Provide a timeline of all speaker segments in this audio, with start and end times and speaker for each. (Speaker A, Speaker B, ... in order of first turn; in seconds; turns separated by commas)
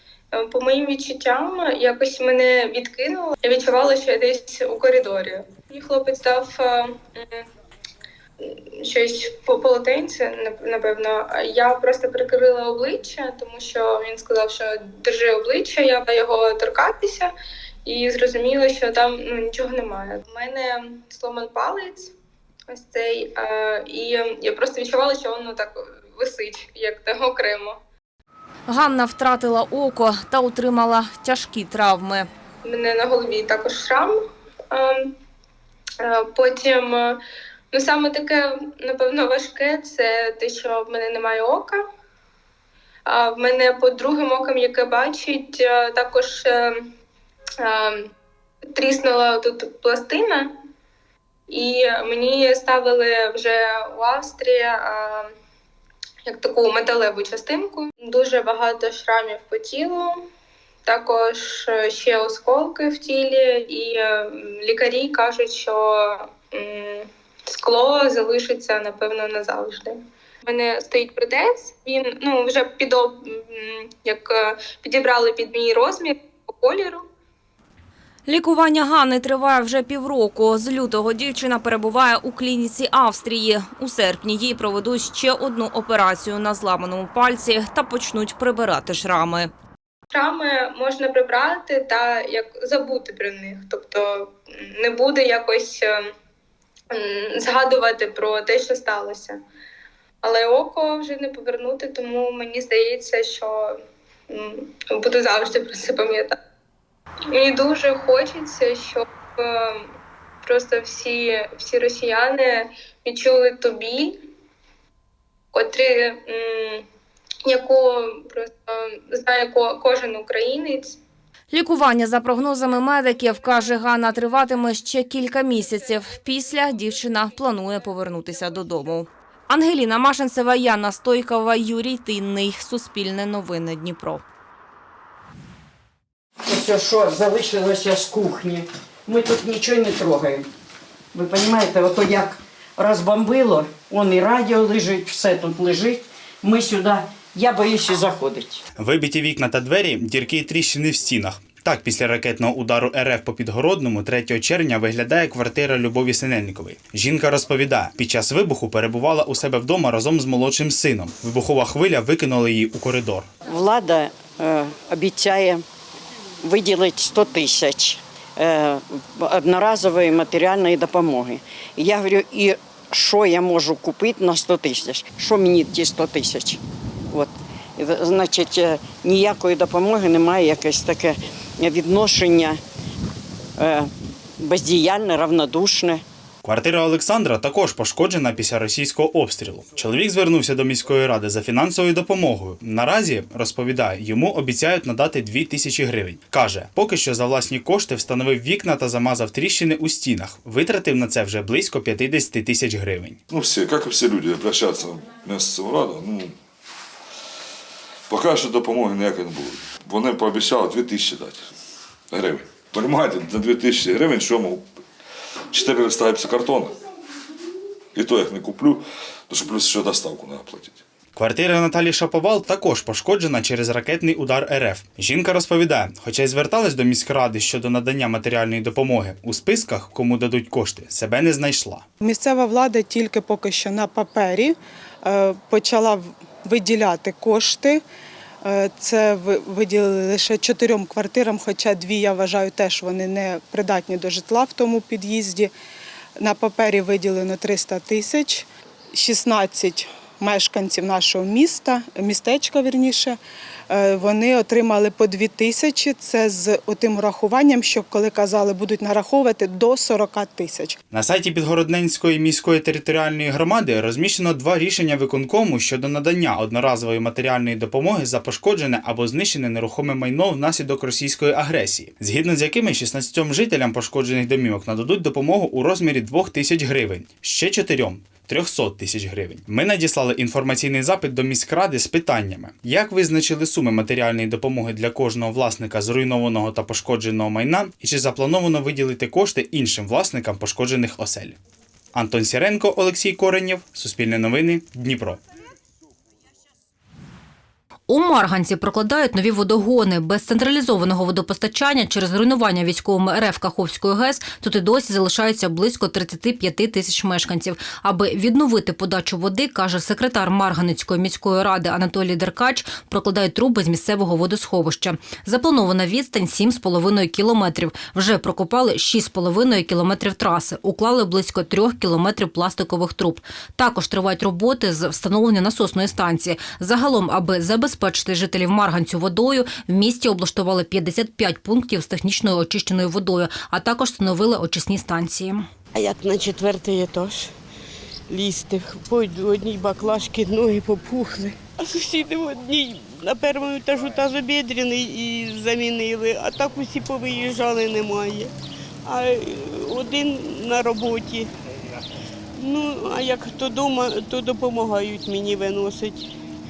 Speaker A: 0.3-7.4, Speaker A: 8.4-17.3, Speaker A: 17.8-22.1, Speaker A: 22.7-27.8, Speaker B: 28.7-32.3, Speaker A: 32.6-35.1, Speaker A: 36.0-37.2, Speaker A: 37.7-41.8, Speaker A: 43.0-46.9, Speaker A: 47.6-48.1, Speaker A: 48.7-50.5, Speaker A: 51.5-55.3, Speaker A: 56.2-60.3, Speaker A: 60.8-77.0, Speaker B: 78.3-89.5, Speaker A: 90.1-96.1, Speaker A: 96.9-99.4, Speaker A: 100.2-106.3, Speaker A: 107.3-109.9, Speaker A: 110.4-114.2, Speaker A: 115.5-116.8, Speaker A: 117.4-121.0, Speaker B: 121.5-134.2, Speaker C: 136.5-140.4, Speaker C: 141.1-148.6, Speaker D: 148.8-163.3, Speaker C: 163.5-165.6, Speaker C: 166.4-176.6, Speaker C: 177.1-182.6, Speaker C: 183.6-183.9, Speaker C: 184.4-186.0, Speaker D: 186.4-203.2, Speaker E: 203.3-206.3, Speaker E: 208.1-211.4, Speaker E: 212.1-214.6, Speaker E: 215.5-216.7, Speaker E: 217.9-220.8, Speaker D: 221.1-231.8, Speaker F: 232.0-237.8, Speaker F: 238.4-245.5, Speaker F: 246.2-253.2, Speaker F: 253.7-260.8, Speaker D: 260.9-291.4, Speaker D: 291.9-295.2, Speaker G: 297.9-335.5, Speaker H: 335.7-337.3, Speaker H: 338.1-348.3, Speaker H: 348.8-351.3, Speaker H: 352.4-356.1